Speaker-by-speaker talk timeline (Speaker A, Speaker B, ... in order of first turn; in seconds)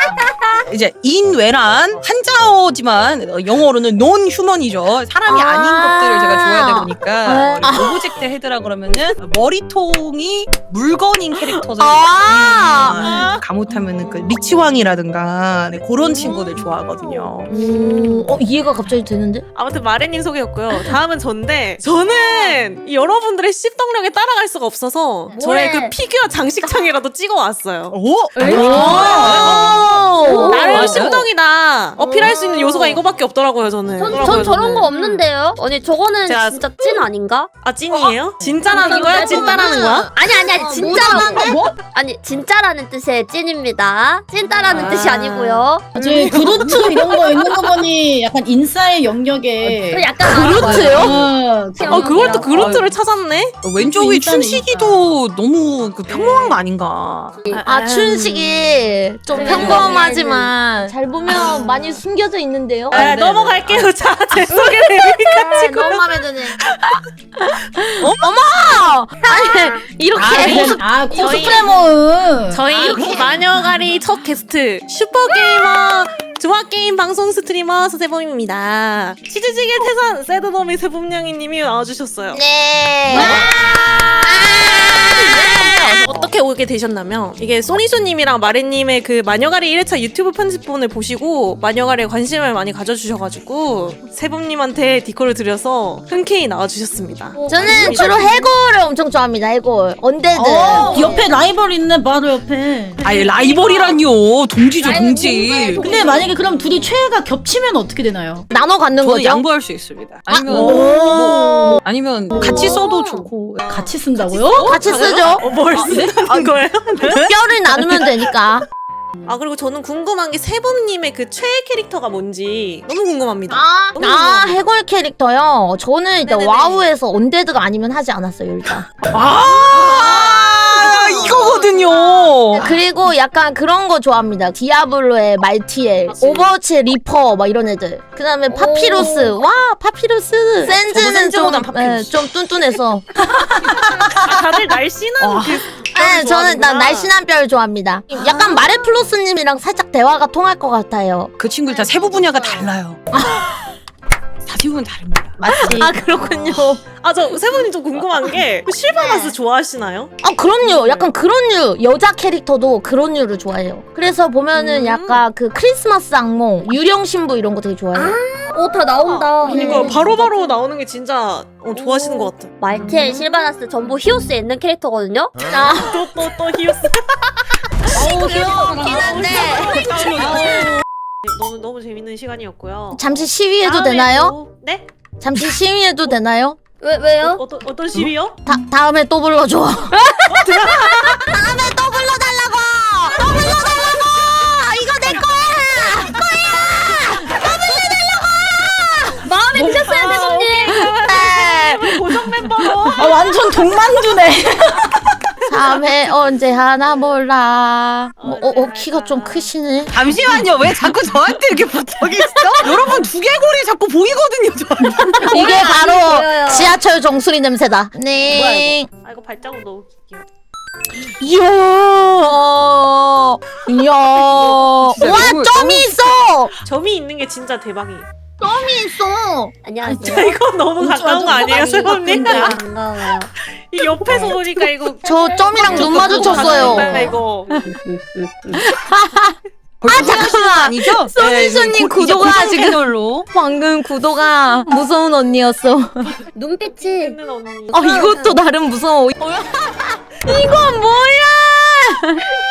Speaker A: 0.7-17.5, 27.9-29.6, 30.7-31.2, 46.1-46.5, 50.4-51.1, 52.5-53.0, 53.6-57.4, 59.4-59.9, 62.9-63.9, 103.0-105.9, 109.0-113.9, 114.5-114.9, 115.7-118.1, 129.1-132.8, 140.6-142.3, 145.2-145.6, 151.4-153.0, 154.4-156.0, 179.8-180.7, 209.9-215.3, 224.5-225.9, 236.2-236.8, 239.8-243.3
Speaker B: 5.3-8.2, 11.4-13.2, 17.5-19.4, 28.4-30.6, 34.1-34.7, 40.5-41.7, 50.2-51.2, 57.5-63.4, 64.6-70.9, 72.7-73.3, 82.3-83.5, 84.2-86.3, 97.5-101.2, 108.5-109.5, 110.3-111.6, 114.6-115.4, 117.2-118.7, 123.5-128.9, 132.6-143.1, 145.9-151.3, 153.1-153.8, 155.4-156.8, 158.9-159.3, 160.2-168.2, 169.5-170.0, 175.4-176.1, 177.9-180.6, 182.9-184.3, 185.2-186.6, 188.5-199.2, 200.7-202.0, 205.5-210.0, 212.5-212.8, 214.9-218.9, 221.0-226.5, 228.4-232.6, 235.0-237.7, 238.5-246.2, 247.7-252.2
Speaker C: 12.9-13.4, 17.5-18.3, 19.5-29.7, 30.2-35.2, 36.2-37.1, 37.6-40.1, 40.6-41.5, 44.5-45.7, 46.3-47.7, 51.9-53.6, 56.1-56.5, 57.5-58.6, 59.4-59.9, 61.3-62.0, 62.9-66.1, 71.1-71.9, 72.5-82.4, 83.1-98.5, 100.8-101.2, 103.5-104.0, 114.2-117.2, 119.2-124.6, 126.2-126.9, 130.8-132.3, 136.1-136.5, 144.1-147.1, 157.0-161.1, 164.6-165.2, 168.5-173.2, 175.4-180.7, 181.3-184.9, 187.2-188.4, 190.6-190.9, 199.6-203.4, 208.2-209.5, 218.3-220.2, 226.6-228.1, 229.9-232.6, 233.4-235.0, 235.6-237.6, 246.6-248.3
Speaker D: 25.3-25.9, 28.4-29.5, 30.2-31.2, 32.0-33.0, 33.9-37.5, 38.7-45.9, 49.7-52.6, 59.3-60.6, 97.3-98.4, 104.8-106.3, 112.4-113.3, 138.5-139.4, 167.9-170.5, 171.7-175.3, 177.9-179.8, 186.8-187.4, 189.9-190.8, 199.2-200.9, 215.2-216.8, 229.6-230.3, 231.4-233.3, 235.0-237.2, 246.3-247.2, 247.9-248.3
Speaker E: 28.7-29.5, 41.4-41.7, 46.0-52.4, 53.8-55.1, 70.2-72.7, 100.3-103.1, 105.8-108.5, 110.5-111.7, 112.3-112.8, 113.7-114.8, 143.2-144.3, 177.9-178.4, 178.9-179.3, 180.2-180.5, 203.0-205.2, 237.6-238.6